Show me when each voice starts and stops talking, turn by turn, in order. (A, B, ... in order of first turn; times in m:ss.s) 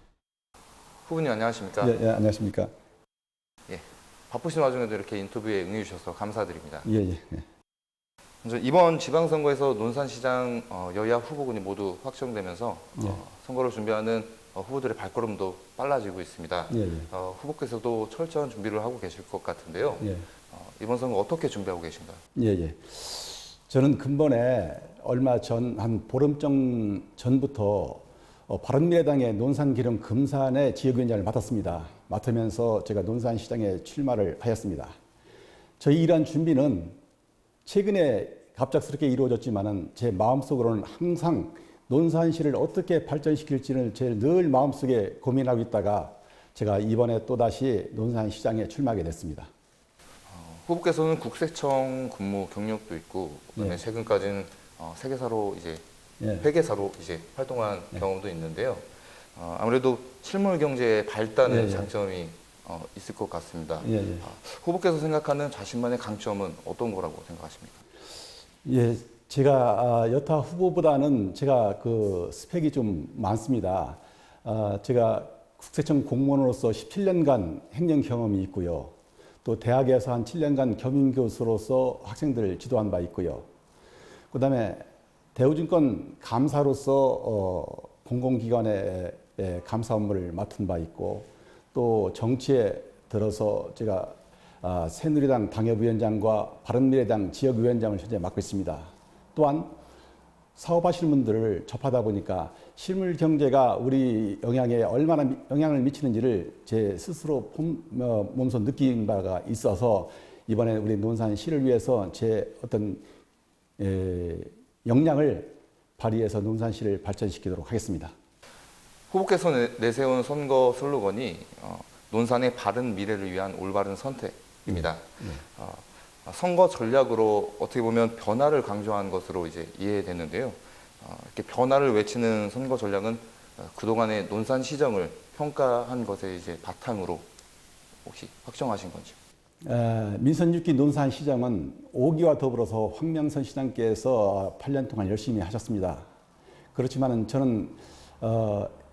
0:01.0-0:02.0 A
0:01.8-0:02.7 B
0:03.7-0:06.9 A
0:06.8-0:07.4 B
0:08.4-0:22.2 A
0:16.7-0:17.1 B
0:20.0-0:20.2 B
0:22.4-0:34.9 B
0:35.8-0:37.0 B
0:37.6-0:49.5 B
0:50.3-0:55.8 A
0:53.6-0:53.8 B
0:56.2-0:56.5 B
0:56.4-1:07.8 A
1:01.4-1:01.9 B
1:03.8-1:04.2 B
1:08.6-1:23.5 B
1:24.3-1:39.7 B
1:40.6-1:53.0 B
1:53.8-1:58.1 B
1:59.1-2:17.3 A
2:04.6-2:05.4 B
2:18.0-2:19.2 A
2:19.6-2:26.0 B
2:26.7-2:28.7 B